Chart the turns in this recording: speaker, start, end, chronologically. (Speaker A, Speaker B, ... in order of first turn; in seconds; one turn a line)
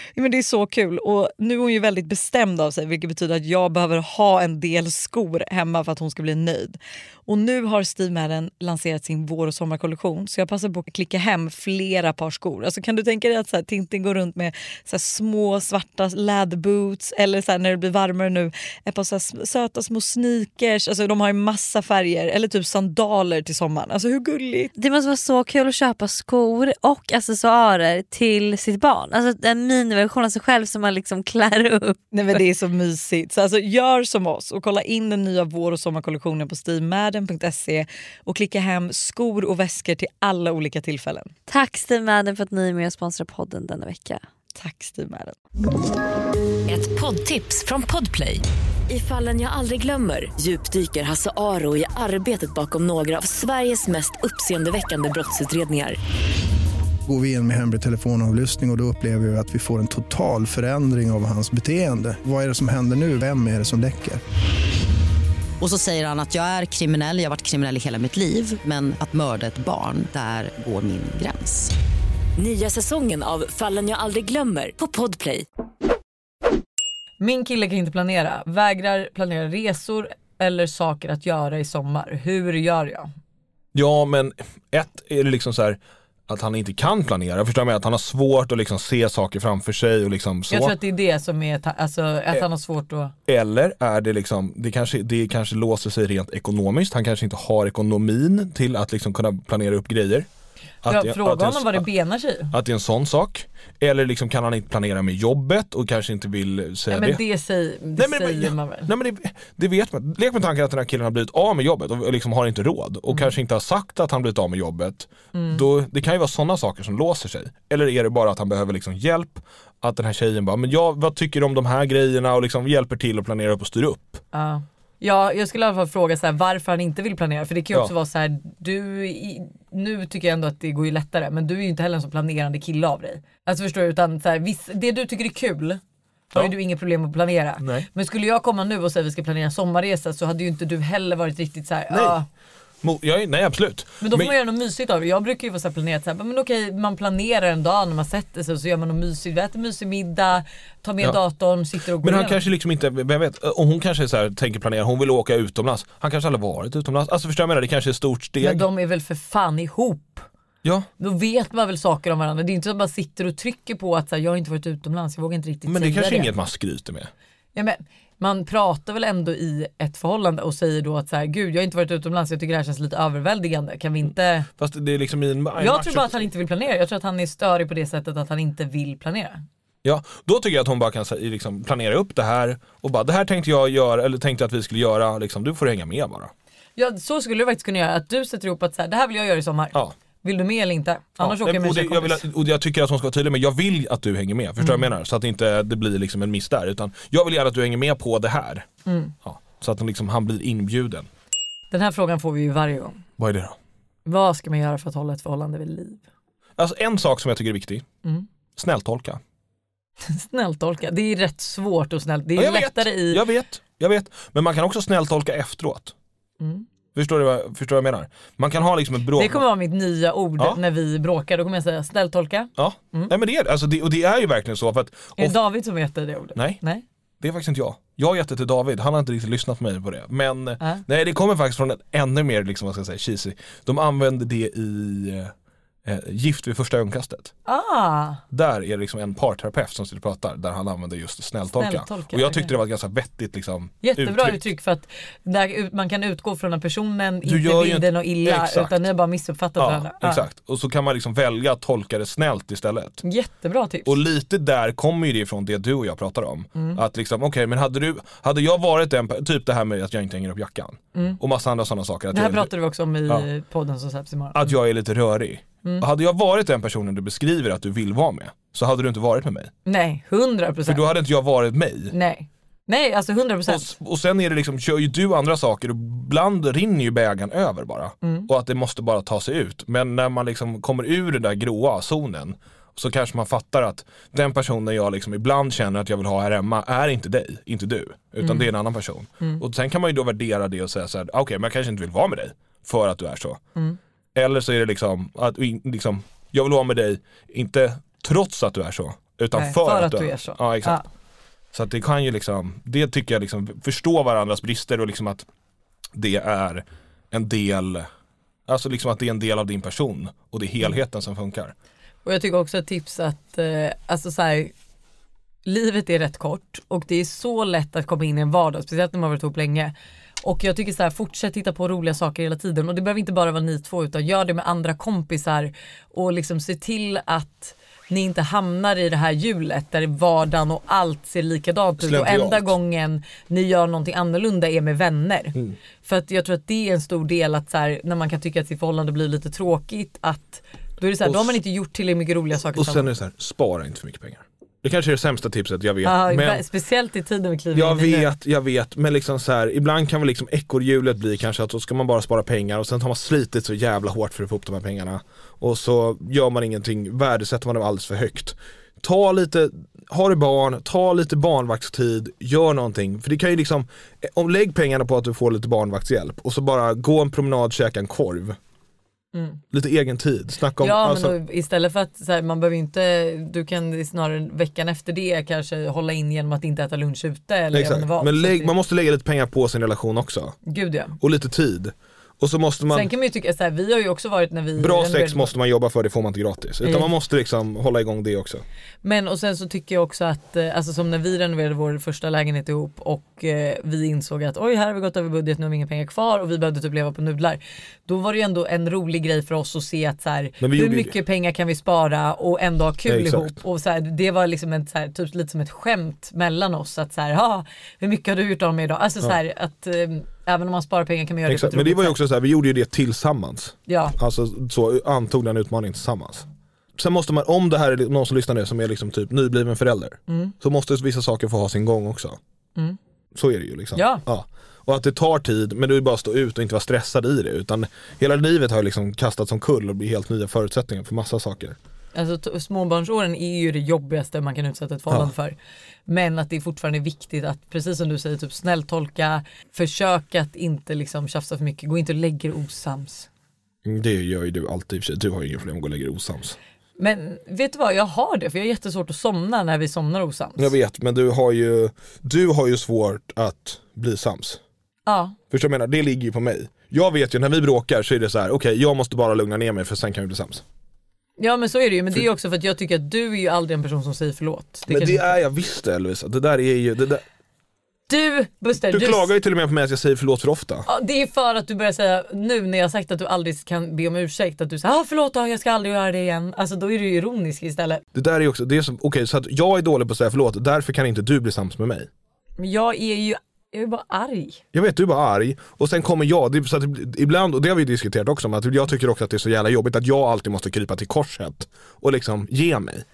Speaker A: 0.2-24.7
Speaker B: 24.8-32.0
Speaker A: 32.1-41.3
Speaker B: 41.5-44.2
Speaker A: 44.6-45.4
Speaker C: 46.7-56.0
Speaker D: 57.1-64.2
Speaker E: 65.6-71.7
Speaker C: 72.4-75.5
Speaker A: 77.2-83.1
Speaker F: 83.7-90.8
Speaker A: 90.5-93.2
Speaker F: 93.3-100.3
Speaker F: 100.8-101.9
Speaker A: 100.9-102.5
Speaker F: 102.5-107.2
Speaker A: 106.9-108.9
Speaker F: 108.0-124.2
Speaker A: 115.3-115.6
Speaker A: 124.3-135.8
Speaker A: 136.3-142.3
Speaker F: 137.6-137.9
Speaker F: 141.9-142.2
Speaker F: 142.8-144.3
Speaker A: 144.0-152.4
Speaker F: 152.0-158.7
Speaker A: 158.4-160.3
Speaker F: 160.6-160.9
Speaker A: 161.0-166.3
Speaker F: 165.7-167.1
Speaker A: 167.6-174.5
Speaker F: 174.6-176.2
Speaker A: 175.6-179.4
Speaker F: 179.8-186.3
Speaker A: 186.8-192.2
Speaker F: 191.2-198.7
Speaker A: 198.9-199.1
Speaker F: 199.2-201.1
Speaker A: 201.7-203.0
Speaker F: 203.2-203.6
Speaker A: 204.1-206.0
Speaker F: 206.6-207.9
Speaker F: 208.6-209.2
Speaker A: 210.0-213.2
Speaker F: 212.4-215.9
Speaker A: 216.4-216.7
Speaker F: 216.9-219.4
Speaker A: 219.2-223.1
Speaker F: 222.6-225.4
Speaker A: 225.2-226.8
Speaker F: 226.3-226.6
Speaker F: 227.2-235.3
Speaker F: 235.8-237.3
Speaker A: 237.5-238.2
Speaker F: 238.3-244.4
Speaker A: 241.6-242.5
Speaker A: 243.8-250.2
Speaker F: 247.2-248.9
Speaker F: 249.6-253.0
Speaker A: 253.0-253.9
Speaker F: 253.8-262.5
Speaker A: 262.1-264.5
Speaker F: 264.3-269.5
Speaker A: 269.7-270.8
Speaker F: 270.7-271.9
Speaker A: 271.9-273.7
Speaker F: 273.5-293.4
Speaker A: 278.0-278.3
Speaker A: 288.2-288.5
Speaker F: 294.1-300.8
Speaker A: 299.3-300.9
Speaker F: 301.5-305.3
Speaker F: 305.9-307.9
Speaker F: 308.5-311.6
Speaker A: 312.1-314.5
Speaker A: 315.4-342.9
Speaker F: 331.8-332.6
Speaker F: 341.0-341.4
Speaker F: 342.6-346.4
Speaker A: 345.8-348.1
Speaker F: 347.5-368.4
Speaker A: 369.1-369.4
Speaker F: 369.5-371.1
Speaker A: 370.6-378.5
Speaker F: 377.5-380.4
Speaker A: 380.5-381.0
Speaker F: 381.0-382.9
Speaker A: 382.7-385.3
Speaker F: 384.6-388.4
Speaker A: 386.6-386.9
Speaker A: 388.8-412.0
Speaker F: 400.4-400.9
Speaker F: 402.9-403.4
Speaker F: 411.3-422.2
Speaker A: 413.7-413.9
Speaker A: 420.1-420.3
Speaker F: 423.1-431.6
Speaker A: 423.8-424.0
Speaker A: 431.9-435.4
Speaker A: 435.9-443.1
Speaker F: 443.6-446.4
Speaker A: 446.8-450.5
Speaker F: 450.4-454.4
Speaker A: 454.9-455.2
Speaker F: 455.3-460.4
Speaker A: 461.2-465.2
Speaker F: 464.7-467.0
Speaker A: 467.9-469.1
Speaker F: 468.6-470.7
Speaker A: 470.7-477.8
Speaker F: 477.9-481.9
Speaker A: 482.4-484.4
Speaker F: 484.5-492.9